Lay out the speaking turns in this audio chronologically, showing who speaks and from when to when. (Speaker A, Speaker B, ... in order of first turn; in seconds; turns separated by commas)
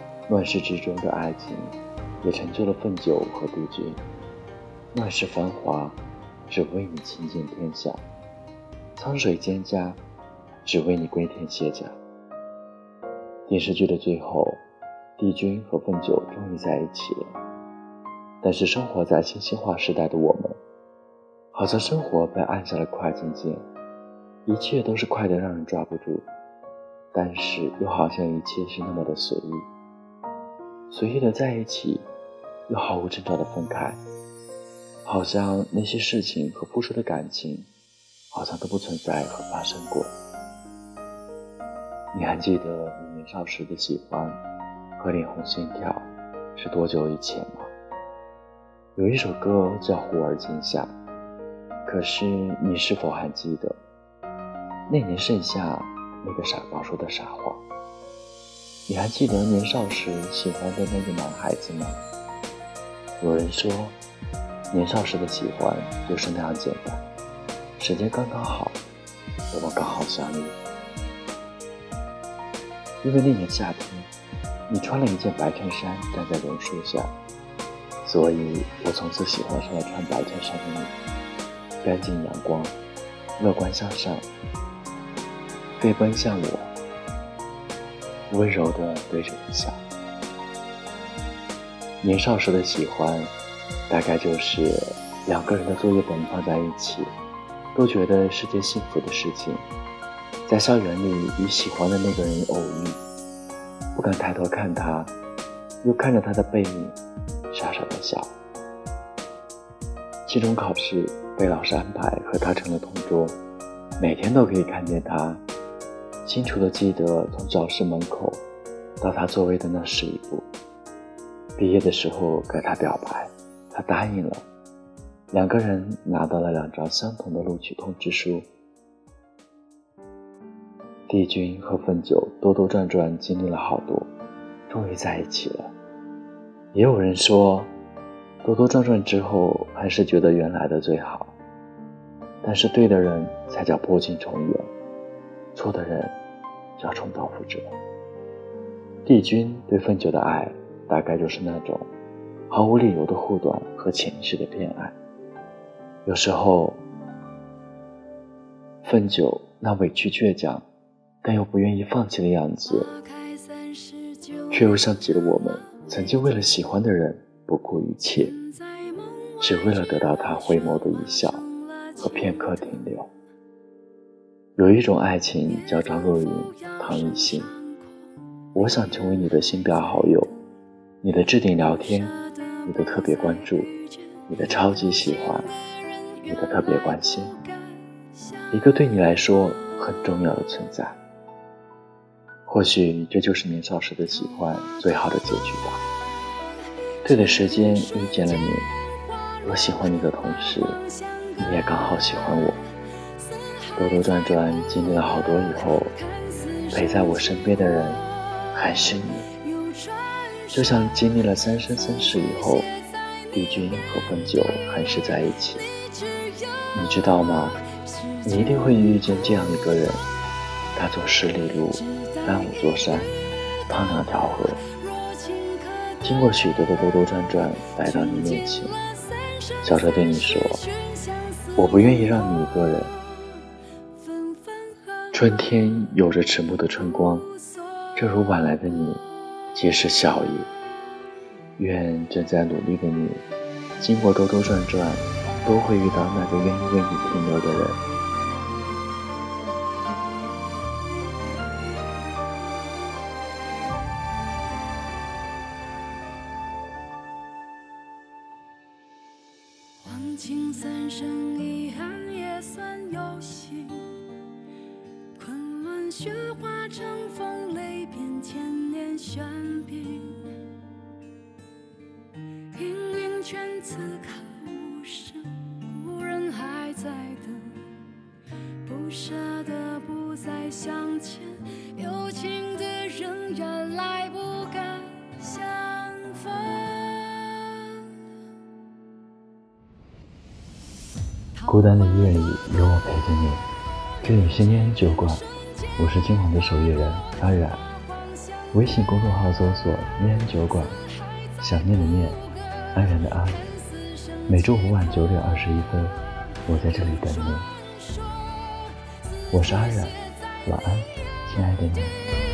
Speaker A: 0.3-4.0, Speaker A: 4.9-8.0, Speaker A: 9.0-10.0, Speaker A: 10.6-12.0, Speaker A: 13.5-14.6, Speaker A: 15.2-17.4, Speaker A: 18.4-20.6, Speaker A: 21.5-23.6, Speaker A: 24.4-26.3, Speaker A: 27.1-29.7, Speaker A: 30.9-32.1, Speaker A: 32.7-34.0, Speaker A: 35.0-37.7, Speaker A: 38.3-40.1, Speaker A: 42.1-44.4, Speaker A: 45.0-47.7, Speaker A: 49.0-50.9, Speaker A: 51.8-53.8, Speaker A: 54.9-57.6, Speaker A: 58.9-62.0, Speaker A: 63.2-64.0, Speaker A: 64.7-67.0, Speaker A: 67.8-68.8, Speaker A: 69.5-70.6, Speaker A: 73.0-74.1, Speaker A: 74.7-77.1, Speaker A: 78.0-80.9, Speaker A: 81.8-82.7, Speaker A: 83.4-84.3, Speaker A: 85.8-86.7, Speaker A: 88.3-89.8, Speaker A: 92.0-93.3, Speaker A: 93.9-97.1, Speaker A: 97.7-99.6, Speaker A: 100.5-103.0, Speaker A: 103.9-105.1, Speaker A: 105.8-107.0, Speaker A: 107.5-108.3, Speaker A: 110.2-113.4, Speaker A: 114.0-115.4, Speaker A: 116.2-118.4, Speaker A: 119.0-120.5, Speaker A: 121.6-124.4, Speaker A: 125.3-128.5, Speaker A: 131.1-134.1, Speaker A: 134.7-135.7, Speaker A: 136.7-137.7, Speaker A: 138.4-141.3, Speaker A: 142.4-144.7, Speaker A: 145.5-146.2, Speaker A: 146.8-147.7, Speaker A: 149.1-151.9, Speaker A: 152.5-154.9, Speaker A: 156.0-156.8, Speaker A: 158.8-160.6, Speaker A: 161.2-162.9, Speaker B: 163.2-164.4, Speaker A: 164.5-168.4, Speaker A: 169.4-173.1, Speaker A: 174.6-177.5, Speaker A: 178.5-180.3, Speaker A: 181.0-183.7, Speaker A: 184.3-185.5, Speaker A: 186.2-187.4, Speaker A: 188.5-191.0, Speaker A: 192.4-195.8, Speaker A: 197.0-198.7, Speaker A: 199.4-200.8, Speaker A: 201.3-202.6, Speaker A: 203.7-206.0, Speaker A: 206.7-208.0, Speaker A: 208.5-209.2, Speaker B: 209.7-210.3, Speaker A: 210.5-212.7, Speaker A: 213.3-215.7, Speaker B: 216.1-216.6, Speaker A: 216.7-217.6, Speaker A: 218.2-220.0, Speaker A: 220.7-223.1, Speaker A: 223.7-224.6, Speaker B: 225.0-225.9, Speaker A: 226.0-228.8, Speaker A: 229.6-230.6, Speaker B: 230.8-231.4, Speaker A: 231.6-232.9, Speaker B: 234.3-234.8, Speaker A: 235.1-237.3, Speaker A: 237.9-239.0, Speaker A: 239.5-240.5, Speaker A: 241.6-243.2, Speaker A: 243.8-247.8, Speaker B: 259.8-264.0, Speaker B: 265.2-270.4, Speaker B: 272.5-277.8, Speaker B: 278.6-287.9, Speaker A: 291.4-293.5, Speaker A: 294.0-297.6, Speaker A: 298.5-300.8, Speaker A: 301.4-303.5, Speaker A: 304.3-307.5, Speaker B: 308.1-308.9, Speaker A: 309.3-312.0